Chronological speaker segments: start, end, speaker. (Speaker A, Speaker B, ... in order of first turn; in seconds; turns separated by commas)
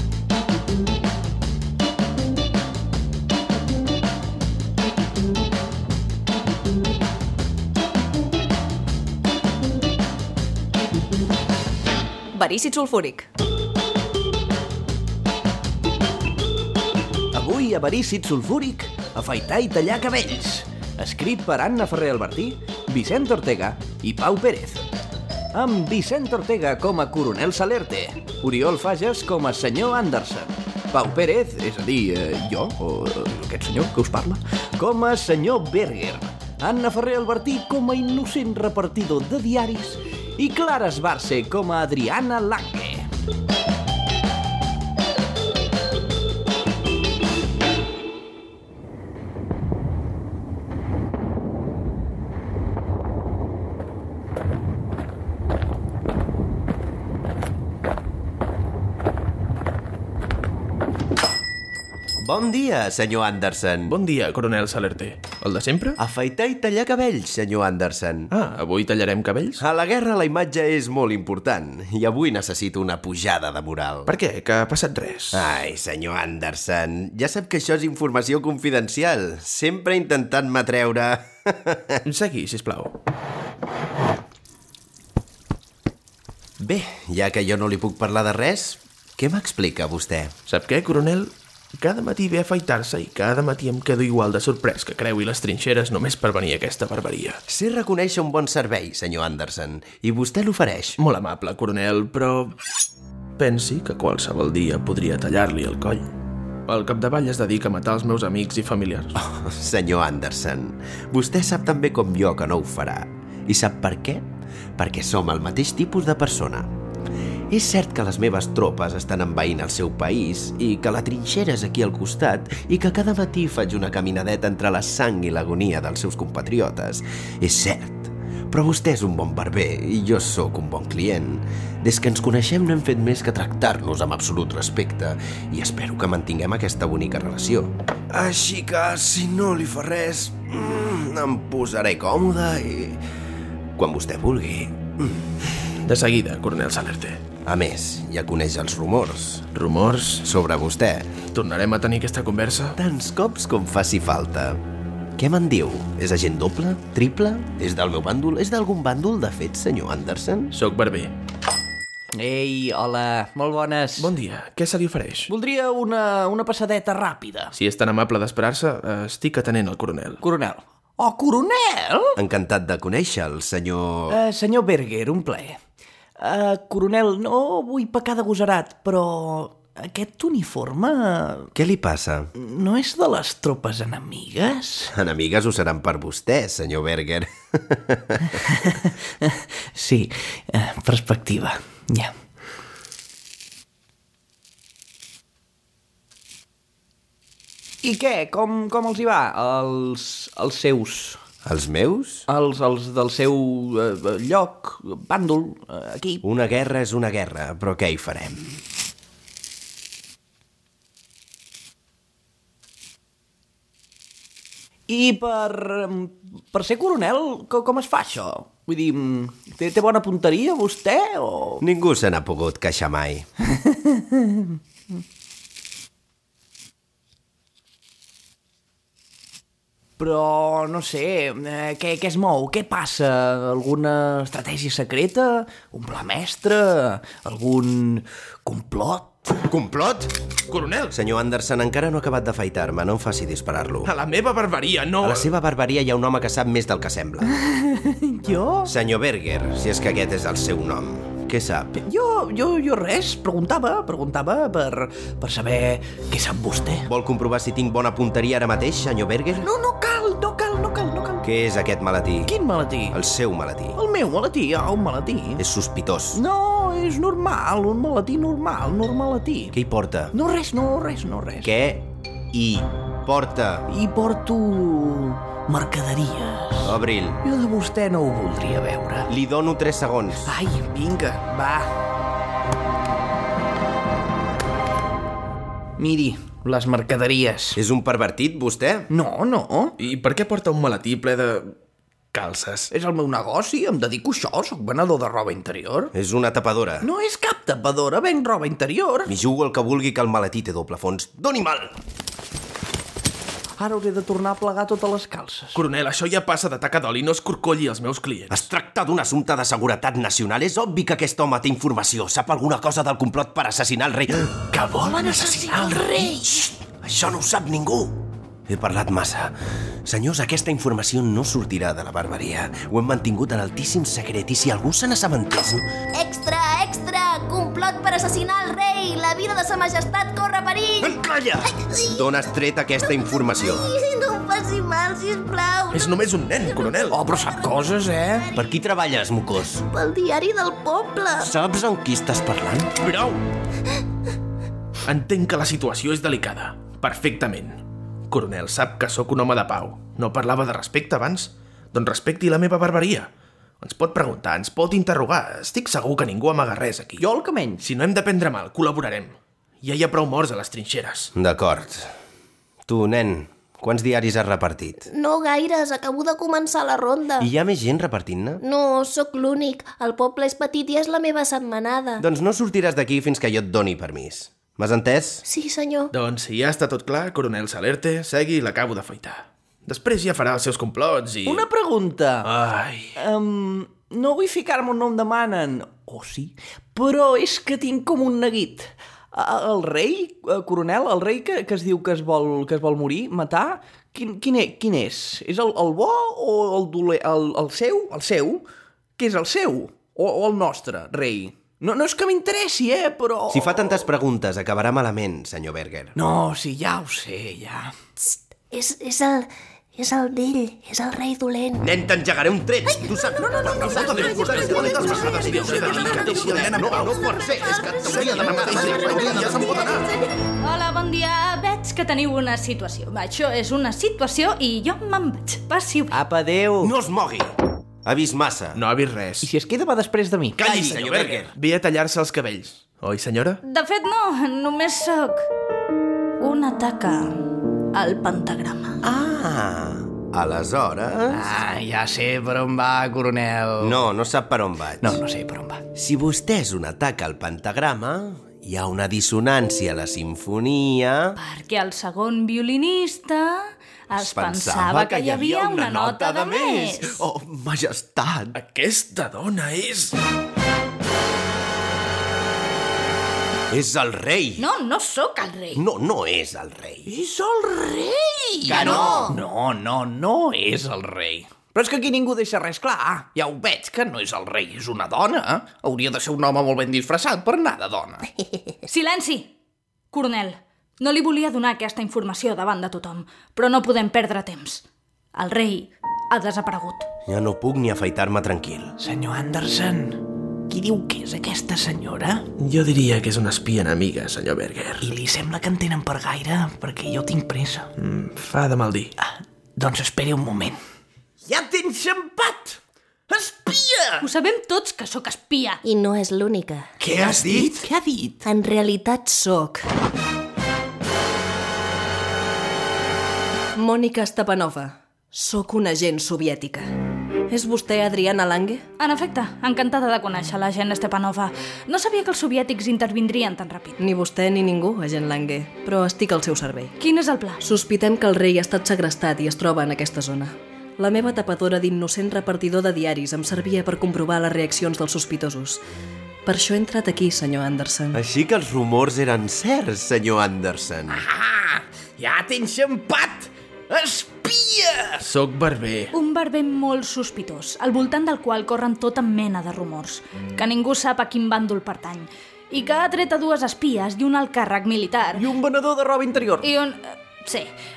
Speaker A: 12.3-13.3, Speaker B: 17.3-24.8, Speaker B: 25.5-43.1, Speaker C: 62.2-64.0, Speaker D: 63.9-66.0, Speaker C: 66.0-68.3, Speaker D: 68.3-69.6, Speaker C: 69.6-74.1, Speaker D: 74.1-75.6, Speaker C: 75.3-82.0, Speaker D: 82.0-82.9, Speaker C: 86.6-90.3, Speaker D: 90.5-97.4, Speaker C: 97.5-101.0, Speaker D: 101.0-102.5, Speaker D: 103.4-106.1, Speaker D: 106.7-109.2, Speaker C: 109.2-116.7, Speaker C: 117.5-143.0, Speaker C: 143.8-145.3, Speaker D: 145.8-147.2, Speaker C: 147.4-149.5, Speaker D: 149.5-150.3, Speaker C: 150.2-151.1, Speaker D: 151.3-152.8, Speaker C: 152.8-154.6, Speaker C: 155.2-160.5, Speaker D: 160.5-161.1, Speaker B: 162.1-164.1, Speaker D: 164.0-165.3, Speaker B: 165.3-167.5, Speaker D: 167.6-170.2, Speaker B: 170.2-172.2, Speaker C: 172.2-174.2, Speaker B: 174.1-175.6, Speaker B: 176.2-181.5, Speaker C: 181.6-182.3, Speaker B: 182.4-184.9, Speaker C: 184.9-188.4, Speaker B: 188.3-192.1, Speaker B: 197.8-201.2, Speaker C: 201.4-202.3, Speaker B: 202.3-206.2, Speaker C: 206.2-208.6, Speaker B: 214.9-221.6, Speaker C: 221.6-223.3, Speaker B: 223.5-224.6, Speaker B: 230.0-239.4, Speaker C: 239.4-240.1, Speaker D: 240.5-241.0, Speaker C: 240.9-243.9, Speaker D: 243.8-245.3, Speaker C: 245.0-247.3, Speaker B: 247.3-248.7, Speaker C: 248.7-251.8, Speaker B: 251.8-256.9, Speaker C: 256.9-259.5, Speaker B: 259.4-261.2, Speaker C: 261.2-262.3, Speaker B: 262.3-263.0, Speaker C: 262.9-263.8, Speaker B: 263.8-265.4, Speaker C: 265.4-266.2, Speaker B: 266.1-269.6, Speaker C: 269.5-270.1, Speaker B: 270.1-271.5, Speaker C: 271.4-273.7, Speaker B: 273.7-279.1, Speaker C: 276.6-277.2, Speaker C: 279.1-280.3, Speaker B: 280.3-281.8, Speaker B: 285.8-287.6, Speaker C: 287.6-288.9, Speaker B: 288.9-289.8, Speaker D: 289.8-291.5, Speaker D: 292.1-292.7, Speaker B: 292.7-295.9, Speaker C: 295.9-296.9, Speaker B: 296.8-299.1, Speaker C: 299.1-301.8, Speaker B: 303.6-305.6, Speaker D: 305.6-308.4, Speaker C: 308.3-314.4, Speaker D: 314.5-315.9, Speaker B: 314.5-316.5, Speaker C: 316.6-325.7, Speaker E: 325.9-332.1, Speaker C: 331.0-333.7, Speaker E: 332.9-335.9, Speaker D: 335.7-337.0, Speaker B: 336.9-338.3, Speaker C: 338.3-339.6, Speaker E: 339.6-341.3, Speaker C: 341.2-342.7, Speaker D: 342.8-343.2, Speaker D: 344.8-353.1, Speaker D: 353.6-357.1, Speaker B: 357.0-357.6, Speaker D: 357.6-361.1, Speaker C: 361.2-361.9, Speaker C: 362.7-364.9, Speaker E: 364.9-367.3, Speaker C: 367.2-368.4, Speaker E: 368.4-372.0, Speaker C: 372.0-375.2, Speaker E: 375.3-375.9, Speaker D: 375.9-381.5, Speaker B: 381.3-382.3, Speaker D: 382.2-383.0, Speaker B: 383.0-398.5, Speaker B: 399.0-403.9, Speaker C: 403.3-405.9, Speaker B: 406.0-407.8, Speaker E: 408.1-411.6, Speaker C: 411.6-419.5, Speaker B: 413.3-416.7, Speaker D: 413.8-417.0, Speaker E: 416.8-420.0, Speaker D: 417.6-420.0, Speaker F: 420.3-426.0, Speaker B: 425.9-426.7, Speaker C: 426.6-427.3, Speaker C: 427.9-428.6, Speaker D: 428.6-429.3, Speaker B: 429.2-430.4, Speaker D: 430.4-433.4, Speaker C: 430.4-431.3, Speaker F: 433.4-435.2, Speaker F: 436.2-438.8, Speaker C: 438.8-441.4, Speaker B: 441.1-443.8, Speaker C: 443.6-445.0, Speaker B: 444.8-445.6, Speaker C: 445.8-451.2, Speaker F: 451.2-457.0, Speaker C: 453.9-458.4, Speaker D: 458.3-460.0, Speaker C: 463.5-464.4, Speaker F: 464.4-465.6, Speaker C: 465.6-466.9, Speaker B: 466.9-478.1, Speaker C: 468.5-469.1, Speaker E: 468.7-469.1, Speaker F: 478.7-479.3, Speaker F: 479.9-484.6, Speaker F: 485.1-486.9, Speaker C: 487.1-488.8, Speaker B: 488.8-492.3, Speaker D: 492.4-494.9, Speaker B: 494.8-497.7, Speaker D: 497.8-499.0, Speaker B: 499.0-500.6, Speaker B: 501.2-502.6, Speaker B: 503.1-504.1, Speaker F: 504.0-505.6, Speaker E: 505.6-506.7, Speaker B: 506.8-508.2, Speaker C: 507.0-507.6, Speaker E: 508.2-509.1, Speaker A: 509.1-509.6, Speaker A: 513.5-516.7, Speaker A: 517.3-518.6, Speaker F: 518.8-523.8, Speaker A: 523.8-526.8, Speaker F: 526.8-527.4, Speaker A: 527.4-535.6, Speaker A: 536.3-538.0, Speaker C: 537.9-541.0, Speaker B: 540.9-545.1, Speaker D: 545.0-545.9, Speaker F: 545.9-555.2, Speaker B: 555.1-556.5, Speaker F: 556.4-557.5